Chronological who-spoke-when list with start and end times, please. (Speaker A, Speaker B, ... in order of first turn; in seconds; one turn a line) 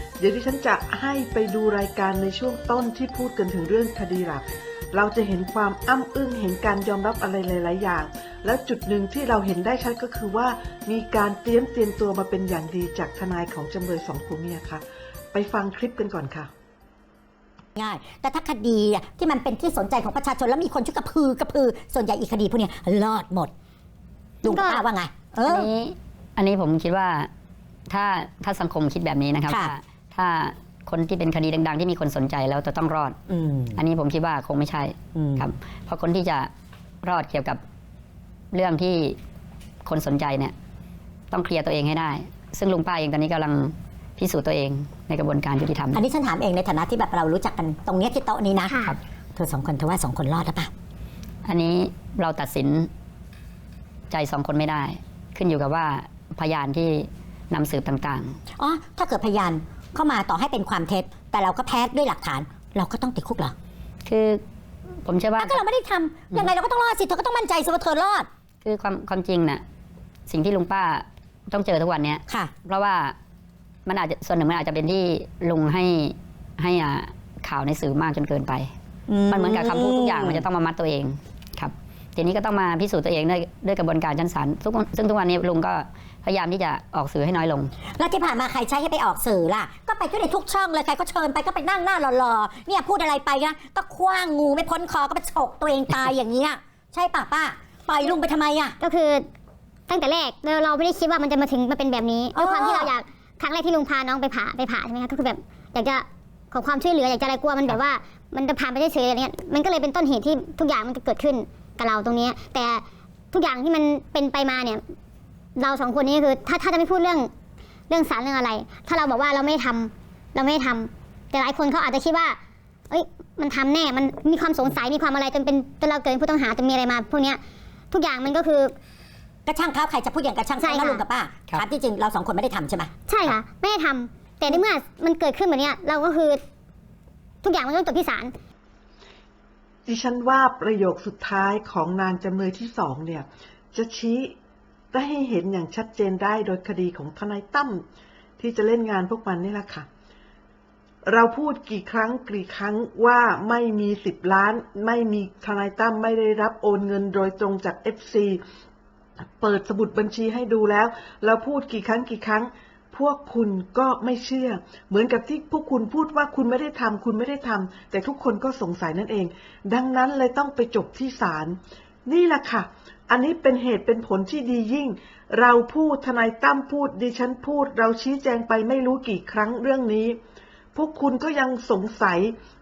Speaker A: 0.2-16.5
Speaker B: 17.8-23.5
Speaker B: 24.4-25.7
Speaker C: 24.4-24.8
Speaker D: 25.5-27.3
Speaker D: 27.9-33.2
Speaker B: 29.5-29.8
Speaker B: 33.3-33.8
Speaker D: 33.8-36.5
Speaker B: 35.1-35.5
Speaker D: 37.0-37.6
Speaker D: 38.5-39.2
Speaker D: 39.8-40.5
Speaker D: 41.3-46.0
Speaker B: 45.9-50.7
Speaker C: 48.7-49.0
Speaker D: 51.5-52.9
Speaker D: 54.1-58.4
Speaker B: 58.5-63.5
Speaker D: 64.0-64.4
Speaker D: 65.0-65.6
Speaker B: 65.4-68.3
Speaker D: 68.6-69.6
Speaker D: 70.3-73.2
Speaker B: 72.3-72.5
Speaker D: 73.9-78.7
Speaker B: 79.1-80.5
Speaker D: 79.3-87.7
Speaker B: 87.9-98.8
Speaker C: 98.8-99.2
Speaker C: 99.9-114.8
Speaker B: 102.3-102.9
Speaker C: 115.6-117.3
Speaker C: 117.9-122.4
Speaker C: 122.9-127.4
Speaker C: 127.9-128.8
Speaker B: 129.5-132.9
Speaker C: 130.6-131.0
Speaker C: 133.1-136.4
Speaker C: 137.4-138.3
Speaker A: 139.9-144.3
Speaker A: 144.9-147.8
Speaker A: 148.4-149.9
Speaker A: 151.1-158.4
Speaker A: 159.4-180.2
Speaker A: 180.7-182.3